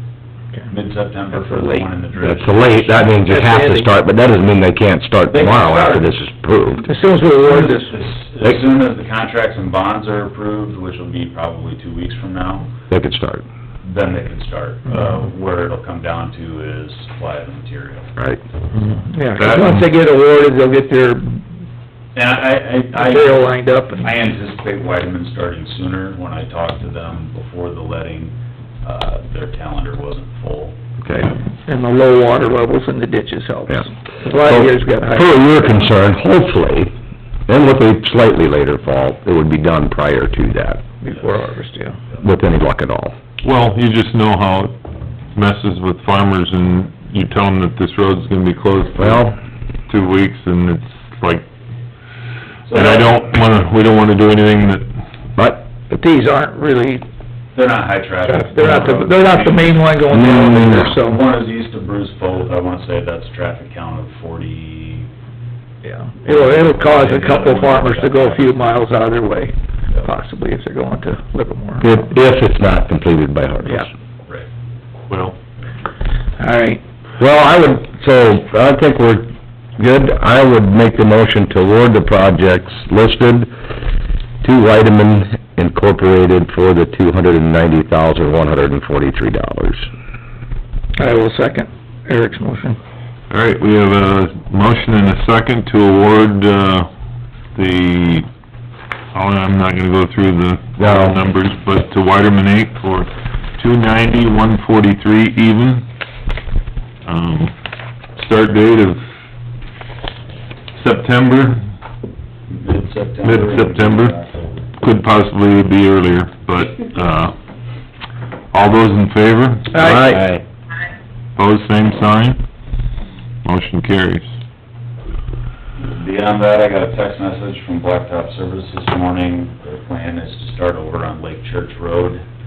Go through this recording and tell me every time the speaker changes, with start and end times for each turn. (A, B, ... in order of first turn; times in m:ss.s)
0:00.7-0:03.1 A
0:01.3-0:01.8 B
0:02.2-0:06.9 C
0:03.1-0:04.0 B
0:05.3-0:06.1 A
0:06.8-0:07.9 B
0:07.2-0:12.7 A
0:12.9-0:13.4 C
0:13.8-0:18.1 A
0:18.8-0:21.4 B
0:22.1-0:30.8 A
0:22.9-0:24.1 B
0:31.0-0:31.3 C
0:31.6-0:35.8 B
0:34.4-0:36.9 C
0:37.5-0:40.8 C
0:41.0-0:42.0 B
0:41.1-0:41.4 A
0:42.2-0:43.1 C
0:43.4-0:44.8 D
0:45.3-0:49.4 D
0:49.0-0:49.4 C
0:49.9-0:51.4 D
0:52.7-0:53.4 A
0:52.7-0:54.9 D
0:55.4-0:55.6 C
0:55.9-0:57.0 B
0:57.5-1:05.1 A
0:58.2-1:01.2 B
1:00.1-1:00.9 C
1:05.8-1:12.1 B
1:06.2-1:08.9 A
1:11.8-1:13.9 C
1:15.1-1:15.3 D
1:16.4-1:16.8 B
1:17.2-1:23.8 C
1:24.4-1:29.9 C
1:30.9-1:32.8 B
1:33.3-1:36.9 D
1:37.5-1:38.3 D
1:39.1-1:45.8 D
1:40.8-1:41.2 C
1:47.0-1:47.5 D
1:48.2-1:49.0 D
1:50.8-1:51.6 D
1:52.5-1:54.7 A
1:53.2-1:54.1 D
1:54.8-1:57.3 D
1:58.5-2:00.2 D
1:59.7-2:00.1 B
1:59.7-2:00.4 C
2:01.4-2:02.4 D
2:03.4-2:04.3 D
2:05.8-2:12.2 A